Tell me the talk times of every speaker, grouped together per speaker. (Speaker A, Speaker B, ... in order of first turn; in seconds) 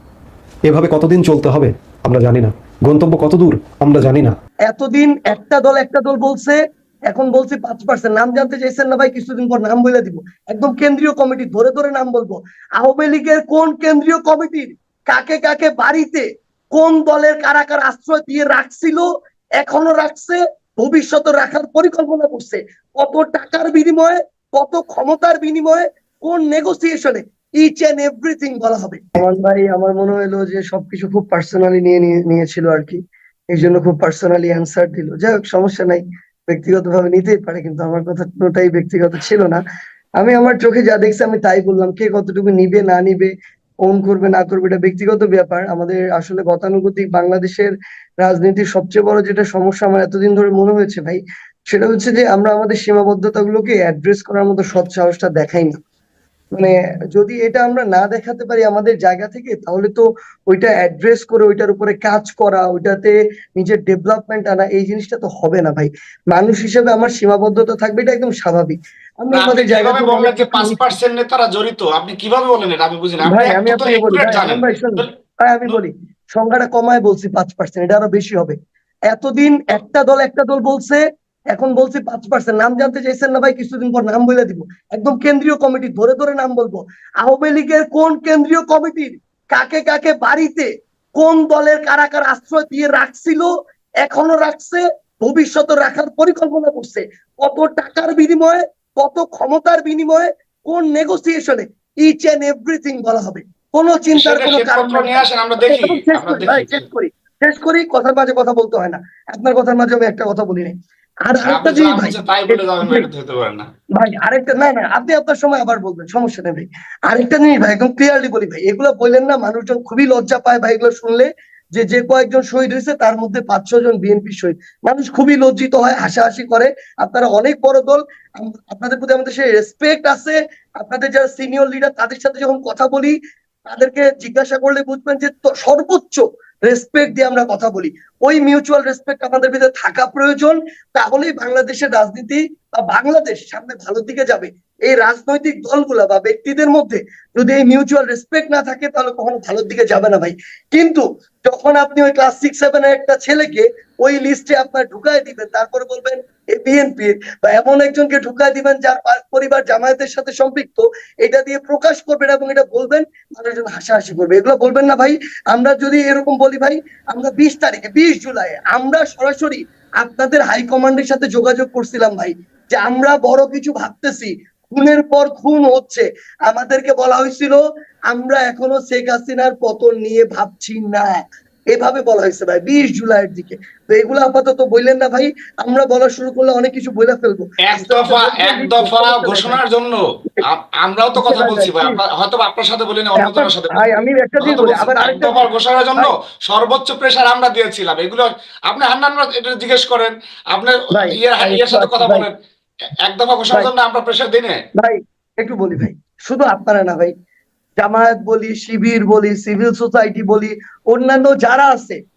Speaker A: 0.7-4.3
Speaker B: 4.7-6.6, 7.1-19.0, 19.6-33.0, 33.5-39.6, 40.2-43.3, 43.8-47.7, 48.2-55.8, 56.5-70.9, 73.2-78.5, 79.1-93.5, 94.0-113.1, 114.0-133.1, 133.7-189.6, 191.1-192.0, 193.2-196.1, 200.9-202.3, 204.8-207.1, 207.8-212.0
Speaker C: 69.3-75.1, 104.1-106.8, 111.4-113.7, 187.6-202.3, 203.0-204.6